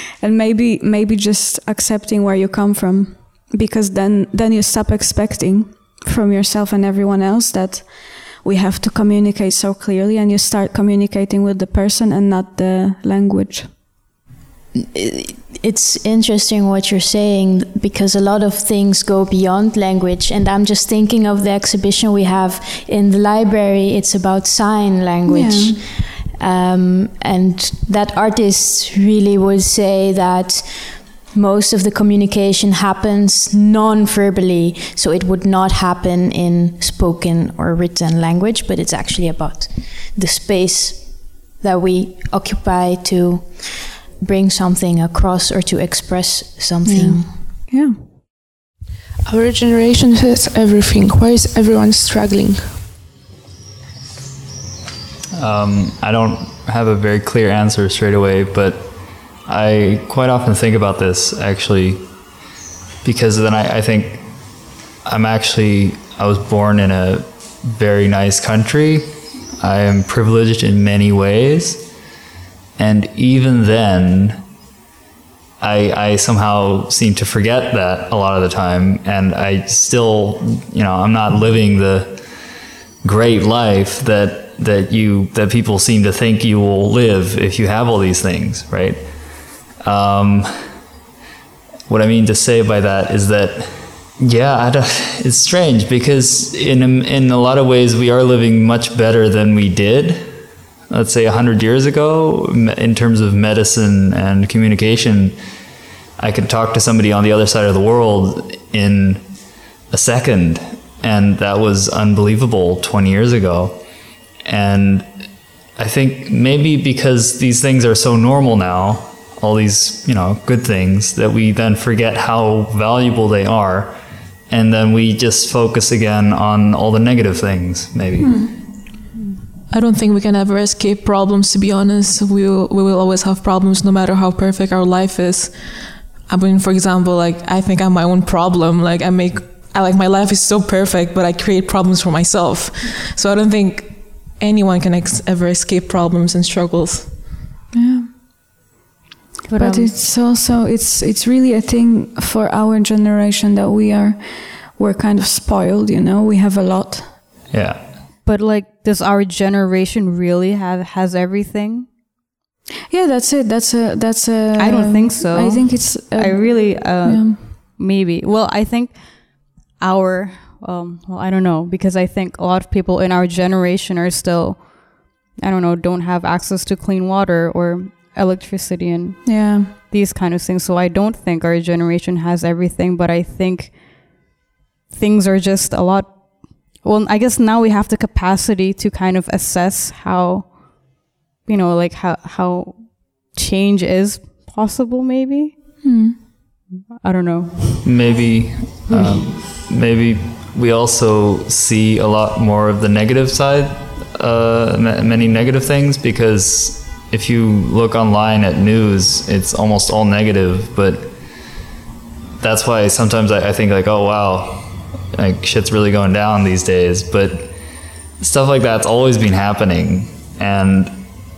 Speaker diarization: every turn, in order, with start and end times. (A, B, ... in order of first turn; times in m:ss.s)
0:00.2-0:13.7 A
0:14.8-0:47.3 B
0:25.3-0:25.8 A
0:46.8-0:48.0 A
0:49.3-0:52.8 C
0:55.4-0:58.9 D
0:59.5-1:02.1 D
1:03.0-1:04.2 D
1:05.0-1:09.1 D
1:09.6-1:11.8 D
1:12.8-1:14.4 D
1:15.6-1:22.2 D
1:23.0-1:29.0 D
1:29.8-1:30.5 D
1:31.9-1:40.3 D
1:40.9-1:45.4 D
1:46.2-1:49.2 D
1:49.9-1:53.8 D
1:54.5-1:55.1 D
1:55.8-2:04.0 D
2:04.5-2:08.5 D
2:08.2-2:08.6 A
2:09.7-2:27.3 E
2:27.7-2:28.1 A
2:29.5-2:29.9 F
2:29.6-2:37.2 A
2:37.5-2:37.8 D
2:38.2-2:41.9 F
2:42.9-2:47.4 A
2:44.6-3:04.2 F
2:59.2-2:59.7 A
3:04.9-3:15.6 F
3:15.8-3:16.2 A
3:16.9-3:17.8 F
3:17.8-3:31.1 D
3:18.9-3:19.2 F
3:32.4-3:37.5 D
3:38.2-3:40.9 D